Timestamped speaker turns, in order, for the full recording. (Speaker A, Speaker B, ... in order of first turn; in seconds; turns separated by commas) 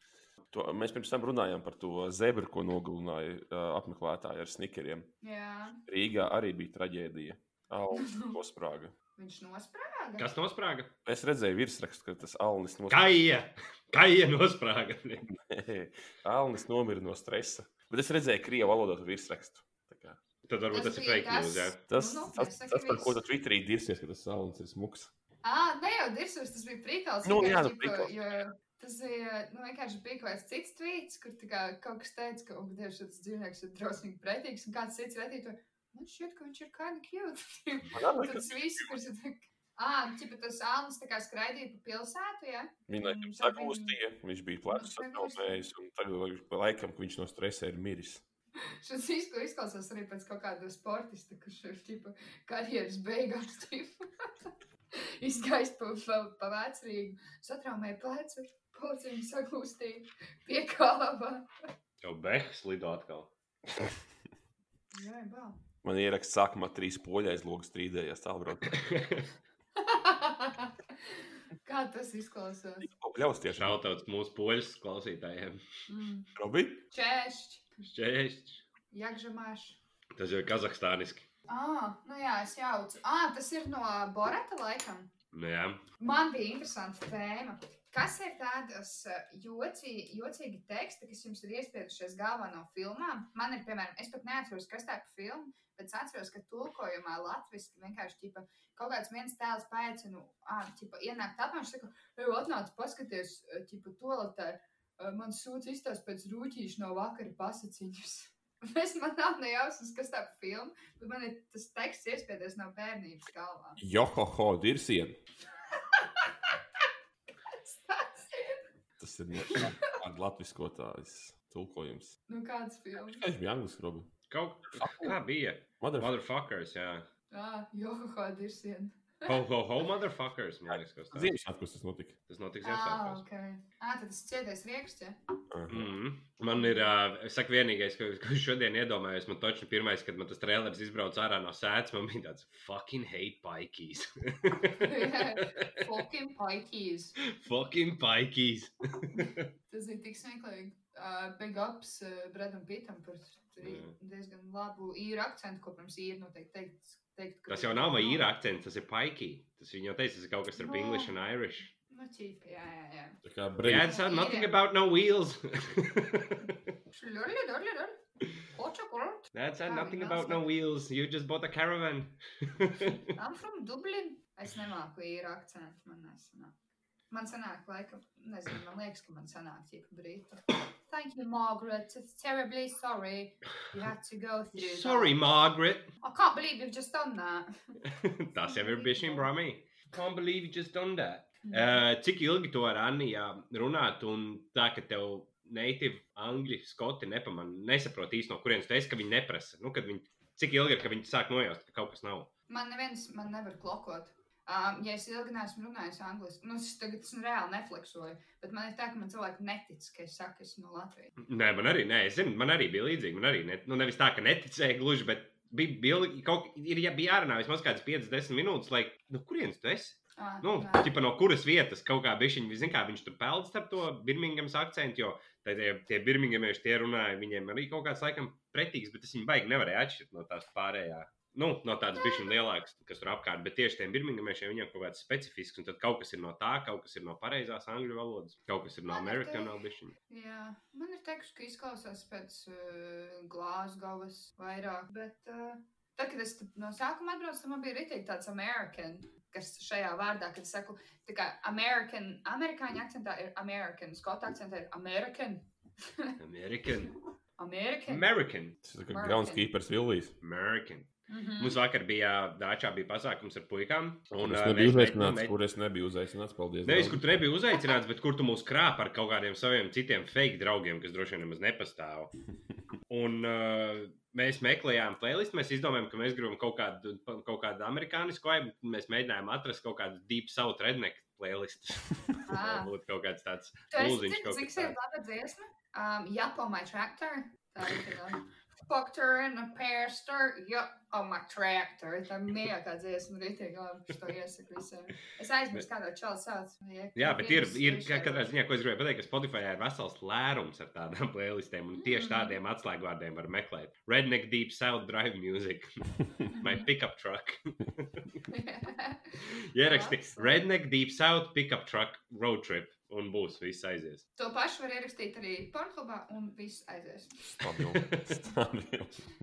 Speaker A: 0.5-5.1, Speaker B: 5.2-5.8, Speaker A: 5.9-8.9, Speaker B: 7.9-8.3, Speaker B: 9.2-10.3, Speaker C: 10.2-10.9, Speaker A: 11.0-13.1, Speaker C: 12.9-15.2, Speaker A: 15.3-20.2, Speaker C: 20.5-21.8, Speaker B: 20.7-23.2, Speaker A: 21.9-25.1, Speaker B: 25.4-44.0, Speaker A: 27.2-28.1, Speaker A: 37.9-38.9, Speaker A: 42.9-48.2, Speaker B: 44.7-45.6, Speaker B: 48.8-61.5, Speaker C: 62.0-63.3, Speaker B: 64.9-65.6, Speaker A: 65.8-68.8, Speaker C: 68.7-69.3, Speaker B: 69.8-70.7, Speaker B: 71.6-72.9, Speaker A: 72.8-73.8, Speaker C: 73.5-75.6, Speaker B: 75.9-76.3, Speaker A: 76.3-76.8, Speaker B: 76.9-77.8, Speaker C: 77.8-78.6, Speaker B: 78.9-79.8, Speaker C: 80.2-81.2, Speaker B: 81.5-85.1, Speaker C: 85.3-85.8, Speaker B: 86.0-113.8, Speaker A: 113.8-115.2, Speaker B: 115.7-116.5, Speaker B: 117.5-118.6, Speaker A: 119.0-122.1, Speaker B: 119.5-119.9, Speaker B: 122.3-123.2, Speaker A: 123.1-124.1, Speaker C: 124.3-127.0, Speaker A: 124.7-125.2, Speaker A: 125.8-126.1, Speaker B: 127.3-129.4, Speaker C: 129.3-131.3, Speaker A: 131.1-132.1, Speaker C: 132.3-133.2, Speaker B: 132.6-135.2, Speaker A: 135.5-135.9, Speaker C: 135.7-145.8, Speaker B: 136.5-136.9, Speaker B: 144.7-147.2, Speaker C: 147.2-149.5, Speaker B: 149.7-158.2, Speaker C: 153.6-153.9, Speaker C: 157.5-161.7, Speaker B: 160.6-161.2, Speaker B: 161.9-163.2, Speaker A: 163.2-163.9, Speaker C: 163.6-166.6, Speaker B: 163.7-164.5, Speaker B: 166.9-168.0, Speaker B: 168.5-170.4, Speaker C: 169.3-173.0, Speaker B: 173.1-176.5, Speaker B: 177.1-185.2, Speaker C: 184.5-185.9, Speaker B: 186.0-187.5, Speaker C: 187.8-202.3, Speaker B: 188.3-189.3, Speaker B: 191.4-191.8, Speaker B: 202.5-211.1, Speaker C: 211.2-239.9, Speaker B: 220.2-220.9, Speaker B: 231.9-232.4, Speaker B: 238.9-239.6, Speaker B: 240.1-256.1, Speaker C: 256.2-256.9, Speaker B: 257.4-258.0, Speaker C: 257.9-258.6, Speaker A: 258.6-260.1, Speaker B: 258.9-259.4, Speaker C: 260.2-260.9, Speaker B: 261.1-261.6, Speaker C: 261.4-265.3, Speaker A: 264.1-267.0, Speaker C: 266.6-272.1, Speaker C: 272.9-284.7, Speaker B: 282.2-282.7, Speaker B: 283.7-298.3, Speaker C: 296.9-308.2, Speaker B: 301.8-302.4, Speaker B: 306.3-306.6, Speaker B: 308.3-310.4, Speaker C: 309.2-314.0, Speaker B: 314.2-317.5, Speaker A: 317.4-319.1, Speaker C: 317.7-318.2